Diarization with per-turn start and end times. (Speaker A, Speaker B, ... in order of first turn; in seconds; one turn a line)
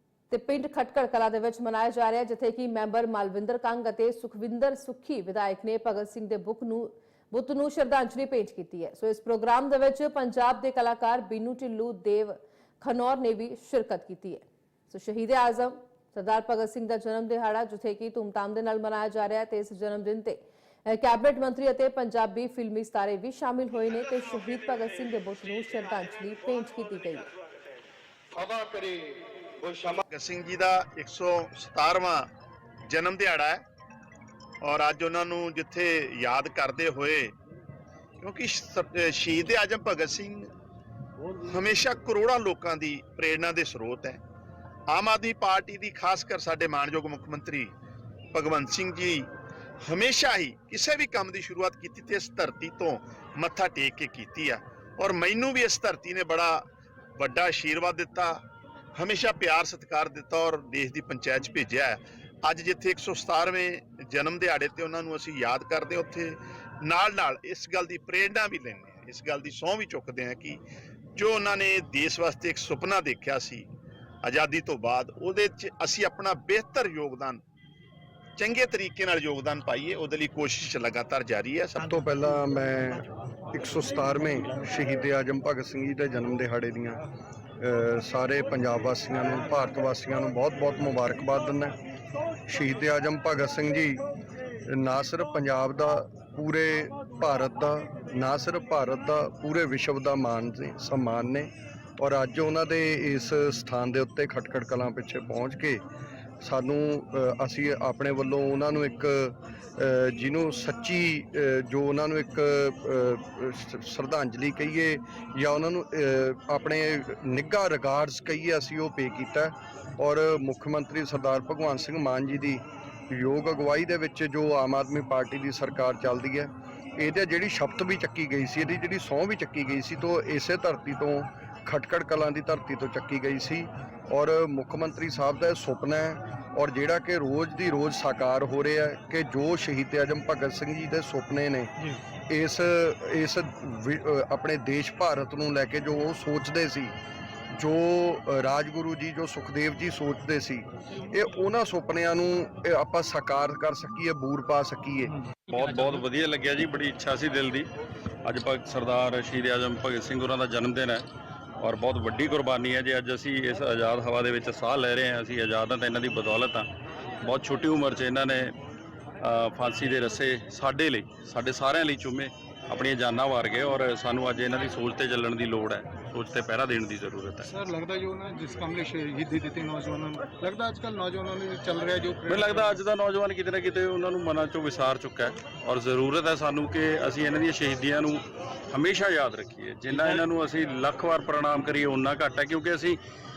Speaker A: 0.3-27.3
Speaker B: 28.3-30.0
Speaker C: 30.1-32.3
Speaker C: 32.9-33.6
Speaker C: 34.6-37.4
Speaker C: 38.2-40.5
Speaker C: 41.4-44.2
Speaker C: 44.9-47.7
Speaker C: 48.3-49.3
Speaker C: 49.8-56.6
Speaker C: 57.2-58.4
Speaker C: 59.0-70.6
Speaker C: 71.2-73.7
Speaker C: 74.2-77.4
Speaker C: 78.4-81.9
Speaker B: 81.8-87.0
Speaker B: 87.6-91.8
Speaker B: 92.5-94.1
Speaker B: 94.7-105.8
Speaker B: 106.4-141.7
Speaker B: 142.3-146.9
Speaker B: 147.6-155.2
Speaker D: 155.5-157.7
Speaker D: 158.2-161.1
Speaker D: 161.6-166.7
Speaker D: 167.2-168.5
Speaker D: 169.2-177.5
Speaker E: 177.4-182.8
Speaker D: 182.3-193.0
Speaker E: 189.9-190.2